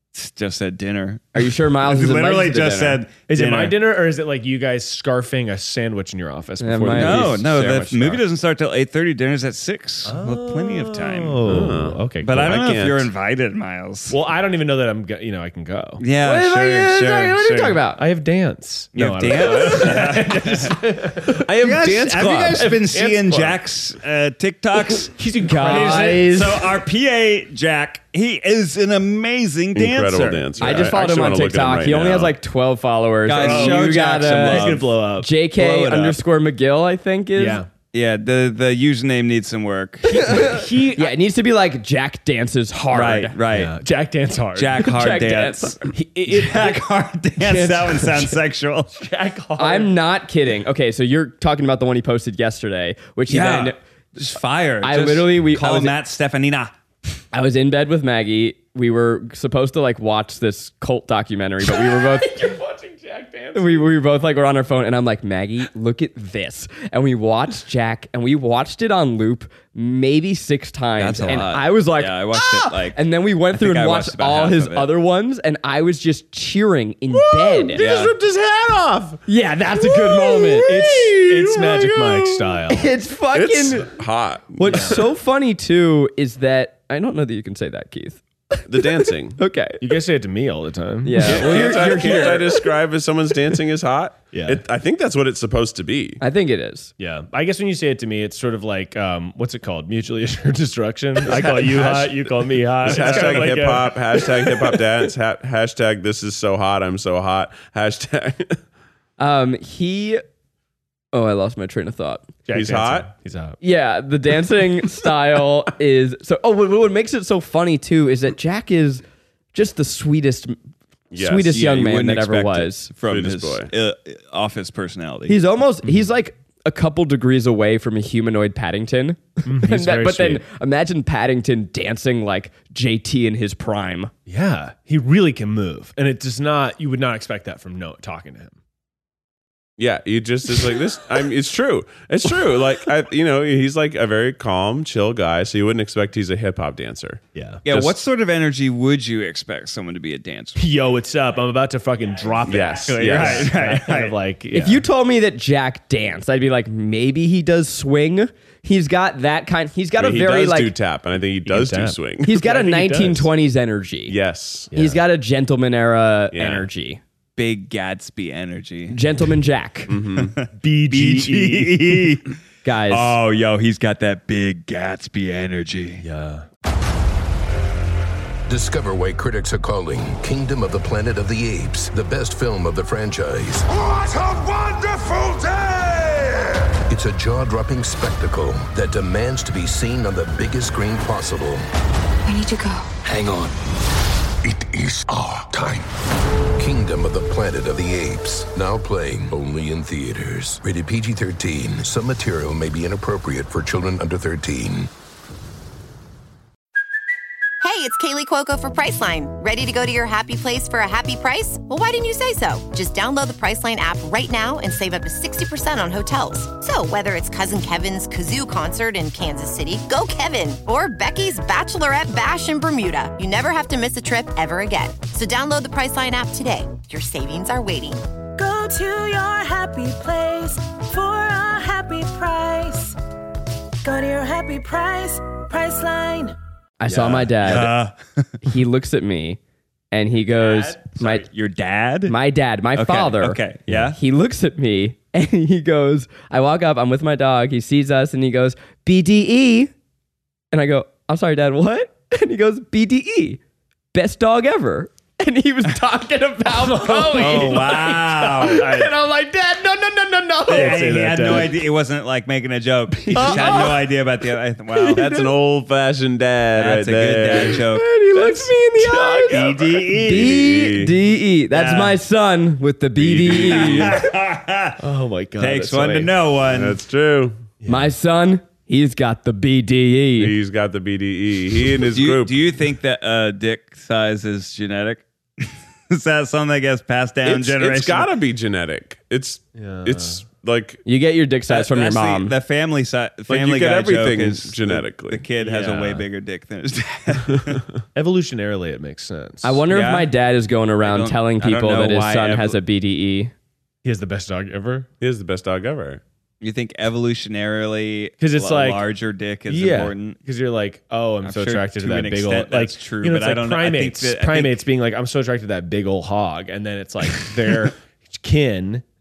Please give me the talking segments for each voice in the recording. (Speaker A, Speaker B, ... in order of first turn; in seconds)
Speaker A: 0.1-3.8, 6.9-14.2, 16.0-17.8, 18.9-30.8, 33.3-35.0, 37.9-40.5, 42.9-43.8, 44.5-49.0, 53.3-56.7, 71.0-74.9, 77.8-78.1, 121.5-125.4, 147.7-150.6, 152.9-154.2, 167.4-169.0, 170.2-172.3, 172.9-176.0, 237.4-238.3, 240.4-242.2, 242.7-243.9, 257.1-258.9, 260.5-265.0, 266.6-267.9, 269.3-270.4, 271.5-272.0, 273.3-274.8, 275.4-276.8, 281.9-288.1, 291.5-297.6, 299.7-300.1, 300.8-302.6, 306.4-310.2, 311.2-314.6
Speaker B: 1.3-3.0, 6.6-8.2, 16.2-18.0, 25.4-26.6, 30.6-37.6, 40.1-43.3, 44.8-45.9, 49.6-53.8, 54.8-55.9, 57.3-62.5, 63.5-77.8, 79.3-80.7, 82.7-83.9, 84.6-89.8, 91.0-92.6, 96.2-96.9, 109.2-110.2, 111.1-112.3, 113.6-119.0, 119.5-120.5, 121.2-122.9, 125.3-134.1, 154.5-160.7, 162.2-164.2, 164.7-167.0, 168.9-169.9, 172.6-173.2, 236.8-237.7, 238.4-239.4, 239.9-241.2, 242.1-243.4, 243.9-249.7, 250.5-253.4, 253.9-260.9, 263.1-263.7, 267.7-269.4, 270.0-274.0, 277.7-280.3, 290.8-292.3, 299.4-303.3
Speaker C: 3.3-7.5, 10.1-12.6, 14.1-16.0, 17.9-23.6, 24.9-26.3, 33.3-36.1, 37.3-37.7, 40.1-41.1, 43.5-44.8, 45.9-46.8, 47.4-48.4, 49.0-49.9, 61.6-63.9, 80.5-82.9, 84.7-85.0, 89.8-92.1, 94.3-94.6, 97.0-104.8, 112.5-113.6, 129.4-130.4, 134.3-138.6, 147.3-147.6, 150.6-154.8, 161.4-163.3, 164.7-165.0, 170.6-172.1, 176.0-176.4, 256.5-258.9, 260.5-261.6, 263.0-263.8, 264.8-265.2, 268.1-269.8, 274.8-276.1, 277.6-277.9, 289.6-290.2, 297.9-299.6, 303.8-304.9, 308.2-308.8, 309.5-318.8
Speaker D: 11.4-13.1, 22.1-22.6, 29.7-32.3, 77.1-79.2, 80.0-82.5, 83.3-85.0, 88.7-89.4, 91.2-96.2, 101.4-102.2, 102.8-108.6, 112.5-113.1, 121.1-121.6, 123.1-123.7, 139.8-147.9, 152.4-153.5, 160.0-162.3, 164.1-164.7, 166.3-166.7, 169.9-170.3, 264.9-267.6, 270.0-270.9, 272.9-274.0, 276.5-277.4, 280.2-282.4, 287.2-290.8, 293.3-295.2, 305.0-306.0
Speaker E: 178.5-191.6, 193.0-193.5, 194.4-195.9, 196.6-204.9
Speaker F: 207.6-228.1
Speaker G: 228.3-233.0, 233.8-236.3